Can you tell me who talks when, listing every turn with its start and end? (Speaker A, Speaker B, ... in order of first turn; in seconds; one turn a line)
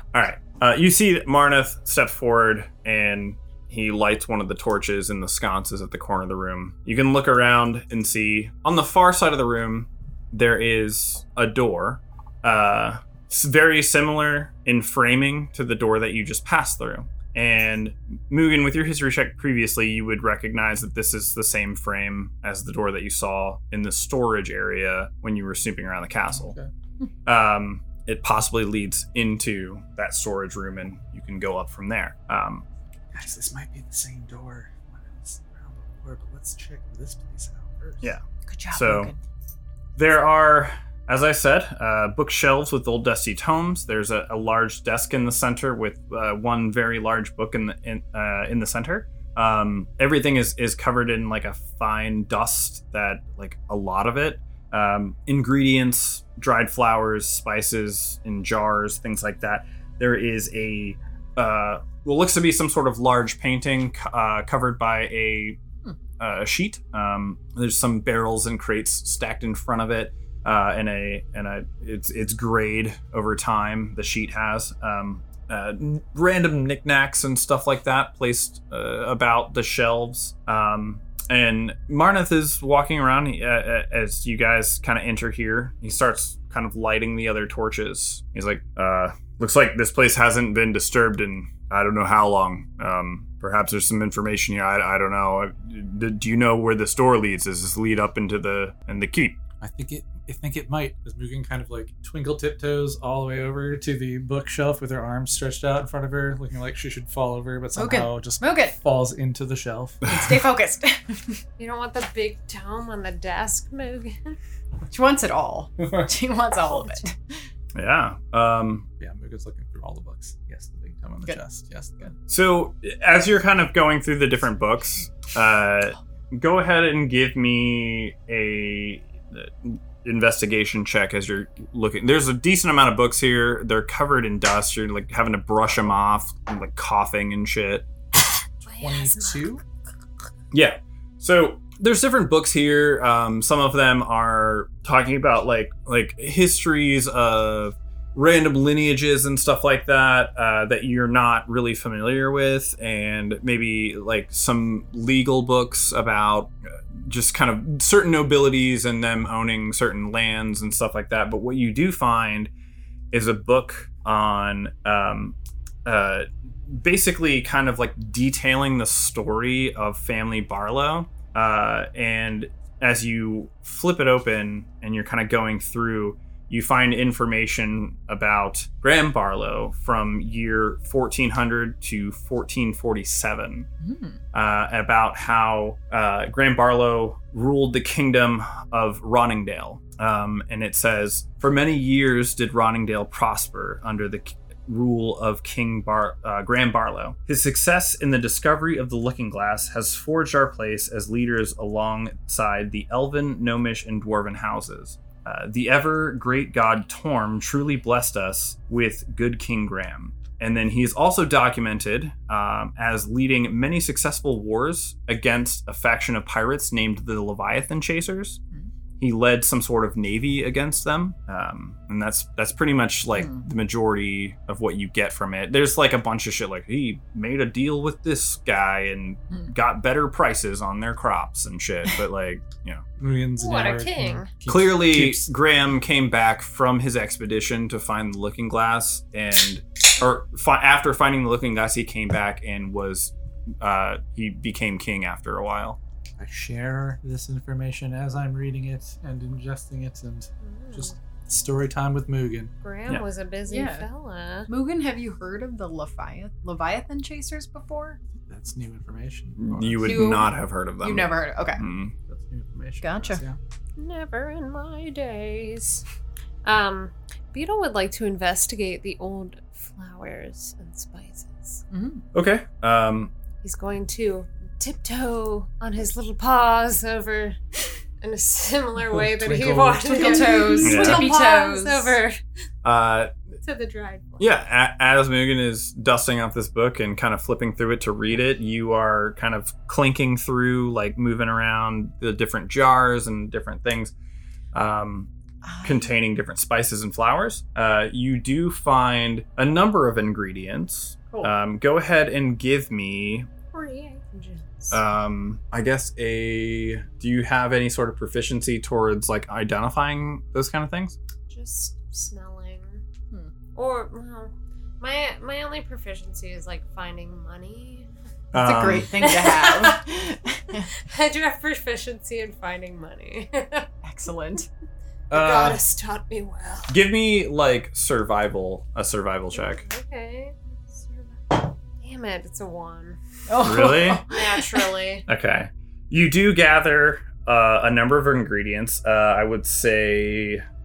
Speaker A: 0.1-26.6
Speaker B: 26.3-26.7
Speaker A: 27.2-32.6
Speaker B: 33.1-38.1
Speaker A: 38.0-39.1
Speaker C: 38.5-39.2
Speaker A: 40.0-65.6
Speaker A: 66.2-99.4
Speaker B: 99.6-110.1
Speaker C: 107.8-108.7
Speaker C: 110.1-111.4
Speaker D: 111.6-114.4
Speaker C: 114.9-117.2
Speaker B: 115.8-116.1
Speaker D: 116.7-117.0
Speaker A: 117.7-118.9
Speaker B: 119.0-122.2
Speaker A: 122.3-137.8
Speaker D: 138.6-139.5
Speaker B: 138.8-139.6
Speaker A: 140.5-162.5
Speaker A: 163.1-183.7
Speaker C: 183.8-184.2
Speaker A: 184.3-218.4
Speaker A: 219.0-232.8
Speaker C: 223.2-223.4
Speaker B: 233.0-235.3
Speaker D: 233.4-234.3
Speaker A: 234.5-245.8
Speaker B: 246.2-252.5
Speaker D: 250.4-250.9
Speaker D: 252.6-254.5
Speaker C: 253.5-253.8
Speaker C: 254.5-258.0
Speaker B: 258.3-260.1
Speaker A: 259.4-261.9
Speaker C: 259.8-261.6
Speaker B: 262.0-263.4
Speaker C: 262.8-263.2
Speaker D: 263.8-265.8
Speaker D: 266.4-271.6
Speaker C: 271.7-272.0
Speaker A: 272.1-273.1
Speaker D: 273.4-282.2
Speaker B: 278.9-280.6
Speaker C: 279.9-282.0
Speaker A: 280.6-281.1
Speaker A: 282.6-283.1
Speaker D: 283.4-284.2
Speaker A: 284.2-293.9
Speaker A: 294.5-295.1
Speaker C: 295.4-295.9
Speaker A: 295.6-303.3
Speaker D: 303.5-304.8
Speaker A: 304.7-311.0
Speaker D: 311.3-312.8
Speaker D: 313.5-317.9
Speaker A: 318.3-318.9
Speaker C: 318.3-320.7
Speaker D: 319.0-319.8
Speaker D: 320.7-323.7
Speaker C: 323.8-324.5
Speaker A: 325.1-325.6
Speaker D: 325.1-326.7
Speaker A: 326.7-329.6
Speaker D: 329.3-333.0
Speaker C: 333.3-334.6
Speaker A: 333.4-334.0
Speaker D: 334.1-335.0
Speaker A: 335.1-340.4